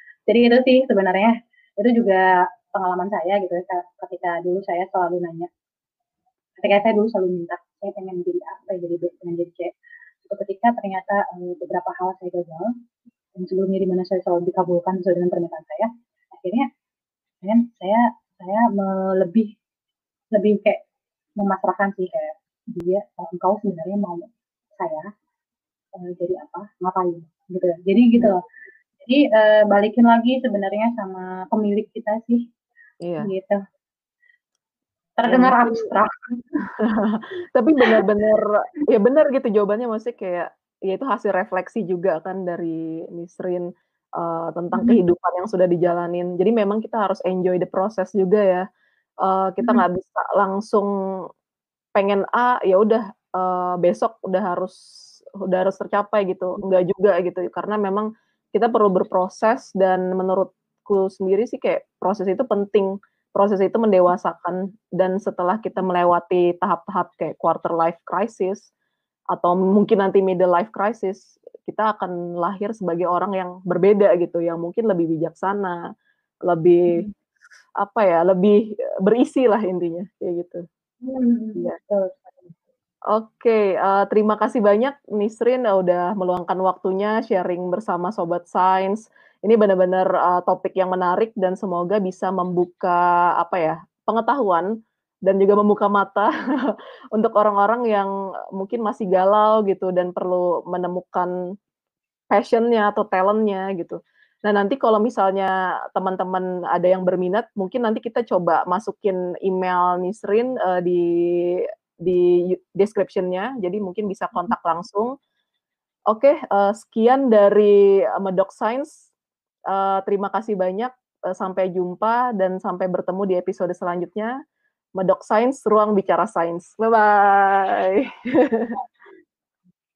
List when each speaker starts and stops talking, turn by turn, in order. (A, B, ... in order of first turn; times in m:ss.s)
0:00.3-0:05.5 A
0:06.6-0:09.7 A
0:10.2-0:12.7 A
0:13.4-0:16.7 A
0:17.4-0:19.5 A
0:20.3-0:20.8 A
0:21.4-0:25.0 A
0:26.0-0:28.4 A
0:29.0-0:32.4 A
0:33.0-0:33.3 B
0:33.2-0:33.6 A
0:35.2-0:36.5 A
0:35.3-0:35.9 B
0:36.8-0:43.7 B
0:44.2-0:48.6 B
0:49.2-0:50.9 B
0:52.0-0:54.7 B
0:55.4-1:08.7 B
1:09.3-1:15.8 B
1:16.4-1:17.0 B
1:17.8-1:20.6 B
1:21.0-1:22.5 A
1:23.1-1:34.7 B
1:35.2-1:41.3 B
1:42.3-1:55.1 B
1:56.1-1:59.1 B
1:59.7-2:04.3 B
2:05.0-2:08.8 B